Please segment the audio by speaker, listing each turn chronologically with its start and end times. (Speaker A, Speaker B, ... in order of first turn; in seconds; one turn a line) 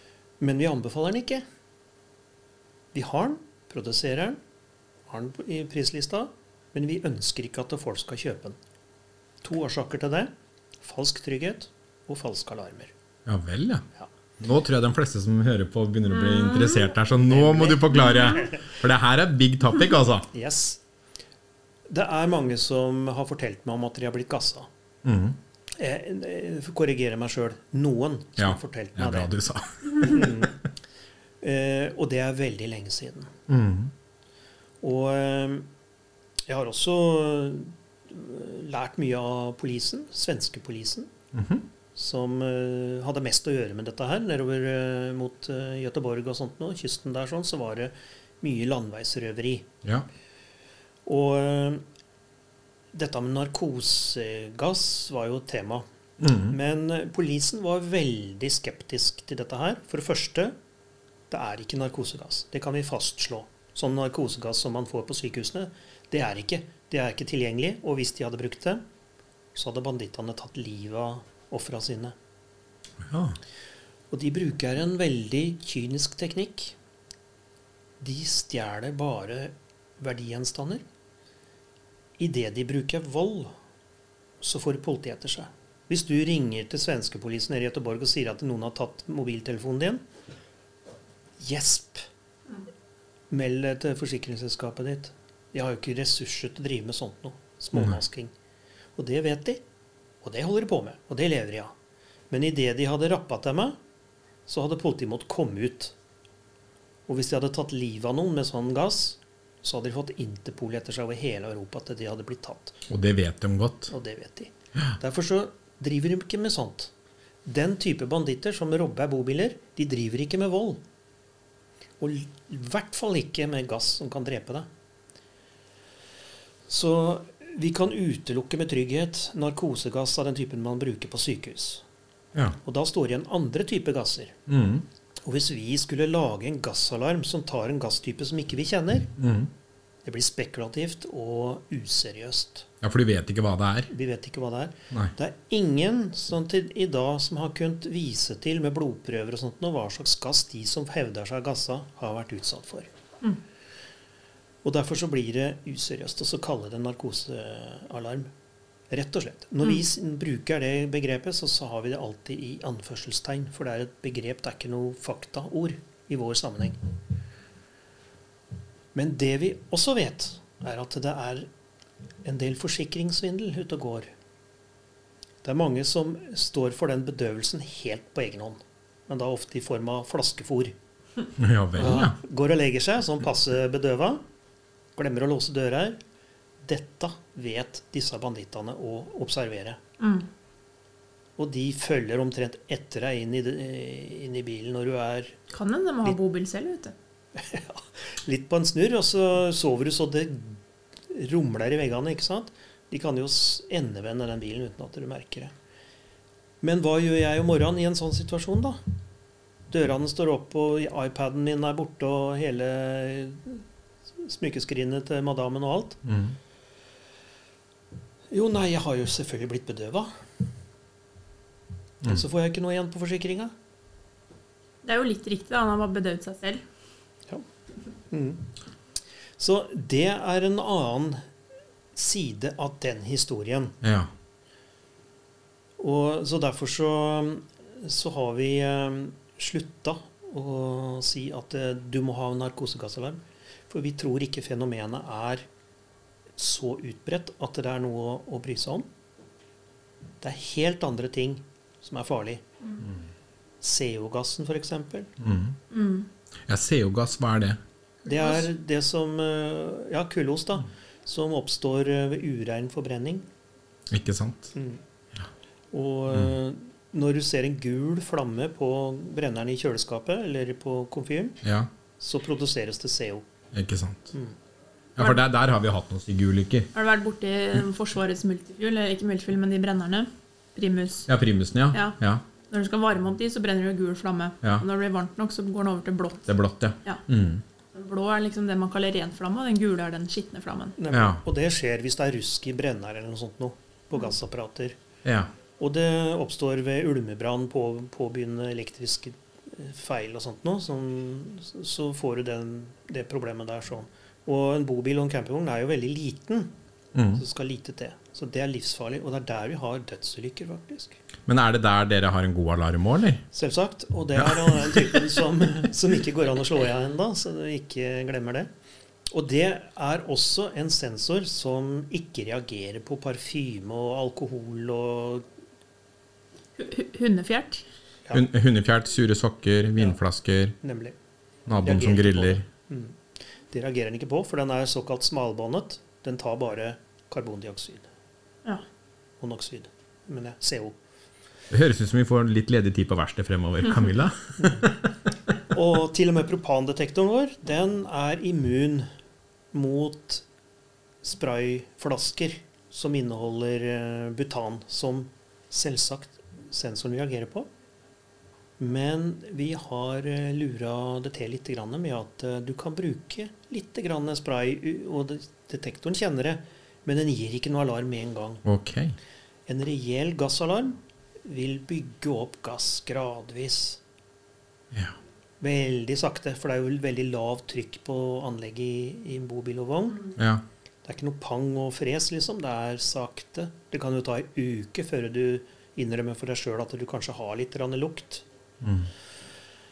Speaker A: 0.4-1.4
Speaker A: 2.9-4.4
Speaker A: 5.1-8.6
Speaker A: 9.4-12.9
Speaker B: 13.2-13.8
Speaker B: 14.4-20.3
Speaker C: 16.1-16.9
Speaker A: 17.2-18.6
Speaker A: 20.3-20.8
Speaker A: 21.9-24.7
Speaker B: 25.0-25.4
Speaker A: 25.8-29.3
Speaker B: 28.4-30.4
Speaker A: 30.0-30.6
Speaker A: 31.4-33.3
Speaker B: 33.5-33.9
Speaker A: 34.8-35.7
Speaker A: 36.5-41.1
Speaker B: 41.3-41.6
Speaker A: 41.9-49.7
Speaker A: 51.0-51.8
Speaker A: 52.9-55.9
Speaker B: 56.2-56.5
Speaker A: 56.5-60.5
Speaker A: 61.3-68.8
Speaker A: 69.5-72.2
Speaker B: 73.0-73.4
Speaker A: 74.1-76.8
Speaker A: 78.0-80.8
Speaker A: 82.2-83.5
Speaker A: 84.4-90.0
Speaker A: 91.4-92.1
Speaker A: 93.3-98.3
Speaker A: 99.0-99.6
Speaker A: 100.2-101.7
Speaker A: 102.3-103.8
Speaker A: 104.5-105.9
Speaker A: 107.1-112.8
Speaker B: 112.9-113.9
Speaker A: 113.9-116.9
Speaker A: 117.4-120.8
Speaker A: 122.0-124.7
Speaker A: 126.7-131.8
Speaker A: 132.6-134.4
Speaker B: 134.5-134.8
Speaker A: 135.2-139.1
Speaker B: 139.2-139.5
Speaker A: 140.0-142.7
Speaker B: 142.8-143.9
Speaker A: 143.9-152.9
Speaker A: 154.6-158.3
Speaker A: 158.9-166.8
Speaker A: 168.9-171.5
Speaker A: 172.2-174.1
Speaker A: 175.4-180.7
Speaker B: 181.4-182.2
Speaker A: 181.8-184.2
Speaker A: 184.9-186.0
Speaker A: 186.6-189.8
Speaker C: 190.0-190.3
Speaker A: 191.4-195.3
Speaker C: 195.5-196.9
Speaker A: 197.3-205.5
Speaker A: 206.6-208.8
Speaker A: 209.7-213.6
Speaker A: 214.2-216.0
Speaker B: 216.0-216.3
Speaker A: 218.3-220.1
Speaker A: 222.0-223.5
Speaker C: 224.8-226.6
Speaker A: 228.1-228.5
Speaker A: 229.4-231.2
Speaker A: 231.9-233.8
Speaker B: 233.8-234.1
Speaker A: 235.8-245.5
Speaker A: 246.3-248.9
Speaker A: 250.2-252.4
Speaker A: 253.6-255.1
Speaker B: 255.2-255.6
Speaker C: 255.7-256.1
Speaker B: 256.5-257.6
Speaker A: 258.0-263.2
Speaker C: 258.1-258.4
Speaker B: 263.9-264.5
Speaker A: 264.5-264.8
Speaker A: 265.7-271.4
Speaker B: 271.4-271.7
Speaker A: 272.0-273.2
Speaker B: 273.5-274.1
Speaker B: 275.0-276.7
Speaker C: 276.7-281.1
Speaker B: 281.1-282.2
Speaker C: 282.5-286.3
Speaker B: 286.3-287.4
Speaker C: 287.7-290.8
Speaker A: 290.8-294.8
Speaker B: 290.9-291.2
Speaker B: 295.0-295.3
Speaker A: 295.6-306.5
Speaker B: 306.9-307.2
Speaker A: 307.1-311.0
Speaker B: 311.3-313.2
Speaker A: 313.3-318.5
Speaker B: 314.2-314.9
Speaker A: 319.1-325.3
Speaker C: 326.6-327.6
Speaker B: 328.1-330.6
Speaker A: 330.6-331.0
Speaker B: 331.5-332.4
Speaker A: 331.6-333.0
Speaker A: 333.5-337.9
Speaker A: 339.2-340.8
Speaker B: 341.5-344.8
Speaker A: 345.5-348.9
Speaker A: 349.5-350.2
Speaker A: 351.0-357.5
Speaker A: 358.6-368.4
Speaker B: 368.4-368.9
Speaker A: 369.5-373.8
Speaker A: 375.4-380.1
Speaker B: 380.2-380.4
Speaker A: 380.8-388.2
Speaker B: 388.6-388.9